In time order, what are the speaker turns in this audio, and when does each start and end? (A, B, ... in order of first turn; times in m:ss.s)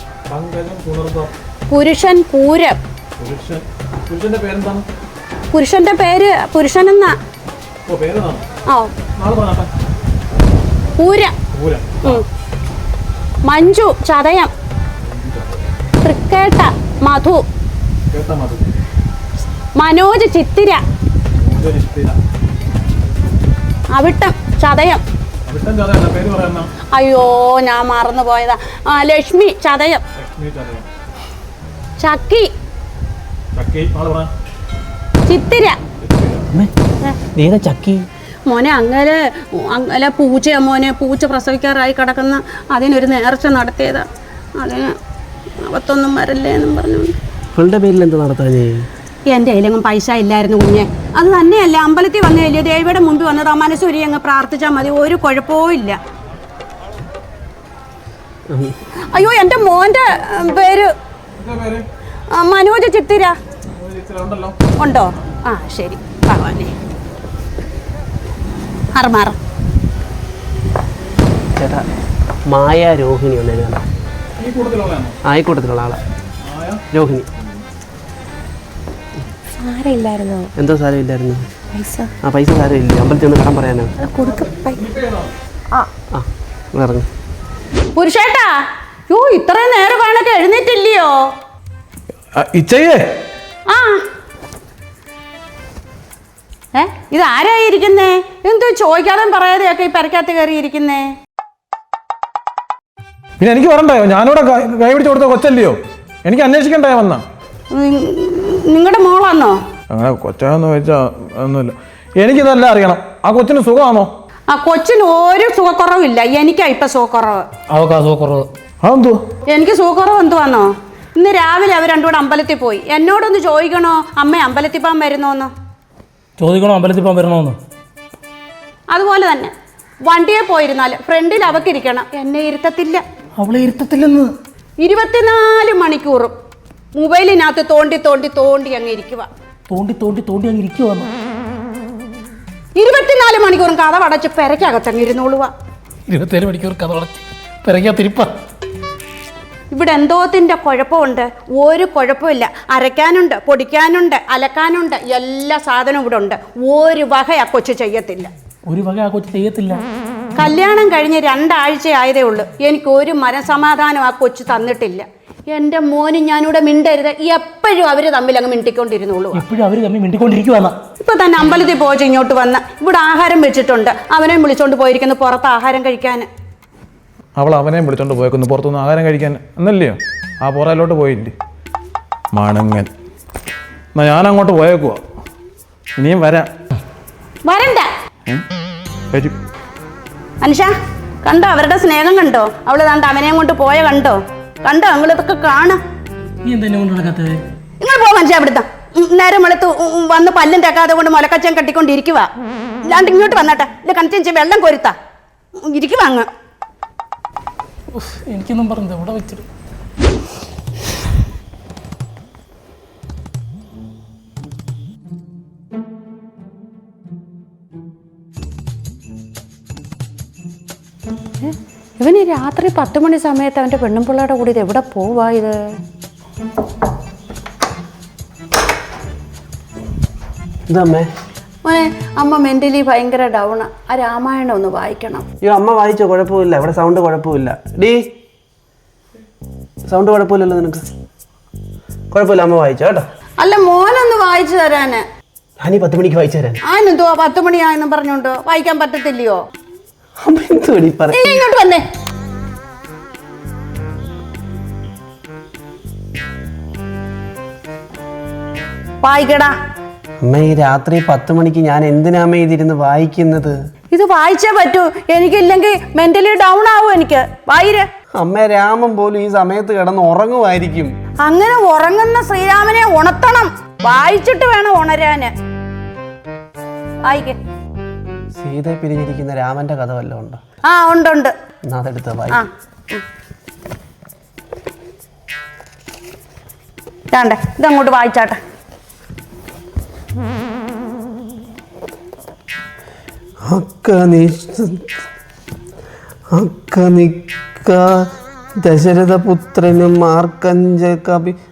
0:00.3-0:01.3 A
0:01.7-0:02.8 B
0:03.2-0:04.8 A
0:05.5-0:07.1 B
0:07.9-0:08.4 A
0:09.2-0:09.7 A
0:11.0-0:11.3 B
0:11.5-0:12.2 A
0:13.5-0:14.5 B
0:15.1-0:15.6 A
0:16.0-0:17.4 B
0:18.1-0:18.7 A
0:19.8-0:20.8 B
0:21.4-0:22.2 A
0:23.9-0:25.0 B
0:25.5-0:26.7 A
0:26.9-0:30.0 B
0:30.2-0:30.9 A
0:32.0-0:32.5 B
0:33.6-0:34.3 A
0:35.3-0:35.8 B
0:36.0-0:36.5 A
0:37.3-0:38.0 C
0:38.5-0:45.0 B
0:45.6-0:47.2 B
0:47.6-0:48.9 C
0:49.3-0:56.0 B
0:58.5-0:58.8 C
0:59.1-1:00.9 B
1:01.4-1:01.8 A
1:02.3-1:03.4 B
1:03.7-1:04.6 A
1:04.8-1:06.7 B
1:09.0-1:09.4 B
1:11.6-1:11.8 C
1:12.5-1:13.8 C
1:14.4-1:15.2 A
1:15.2-1:16.0 C
1:16.4-1:16.8 A
1:16.9-1:17.3 C
1:19.6-1:20.5 D
1:20.6-1:21.4 C
1:21.7-1:22.1 D
1:22.2-1:23.9 C
1:24.0-1:24.8 D
1:24.2-1:25.3 A
1:26.1-1:27.1 C
1:28.0-1:28.6 B
1:29.1-1:31.2 B
1:32.4-1:33.1 A
1:33.7-1:34.0 B
1:36.8-1:41.1 B
1:43.4-1:47.2 A
1:47.7-1:49.6 B
1:49.9-1:54.1 A
1:54.5-1:57.5 B
1:57.7-1:58.5 E
1:58.8-1:59.2 A
1:59.5-2:05.5 B
2:06.4-2:07.6 E
2:08.9-2:09.5 B
2:10.1-2:13.0 B
2:13.4-2:14.3 E
2:14.8-2:16.3 B
2:17.0-2:19.3 B
2:19.7-2:21.1 E
2:22.8-2:25.5 B
2:26.1-2:28.3 E
2:29.7-2:38.3 B
2:38.7-2:39.8 E
2:40.4-2:49.4 B
2:49.3-2:50.8 E
2:51.0-2:56.3 B
2:57.4-3:01.3 A
3:02.3-3:02.9 A
3:03.9-3:05.0 A
3:06.0-3:06.5 A
3:07.5-3:07.9 B
3:10.4-3:10.7 B
3:11.2-3:15.8 B
3:16.4-3:17.4 E
3:17.8-3:22.3 B
3:22.8-3:24.9 B
3:25.6-3:26.3 B
3:27.9-3:29.4 E
3:41.4-3:45.6 B
3:50.7-3:51.1 C
3:51.6-3:55.3 B
3:55.4-3:58.1 C
3:59.9-4:00.8 C
4:02.1-4:03.1 C
4:03.4-4:05.0 B
4:05.6-4:06.6 C
4:06.7-4:09.4 B
4:10.2-4:11.4 C
4:11.1-4:11.8 B
4:19.0-4:19.5 B
4:20.2-4:23.6 C
4:23.9-4:27.9 B
4:28.2-4:30.9 C
4:31.2-4:35.3 B
4:37.0-4:37.4 B
4:38.4-4:40.4 C
4:40.7-4:41.3 B
4:41.7-4:42.4 C
4:42.3-4:43.0 B
4:47.1-4:48.4 B
4:53.4-4:54.8 C
4:56.3-5:01.4 C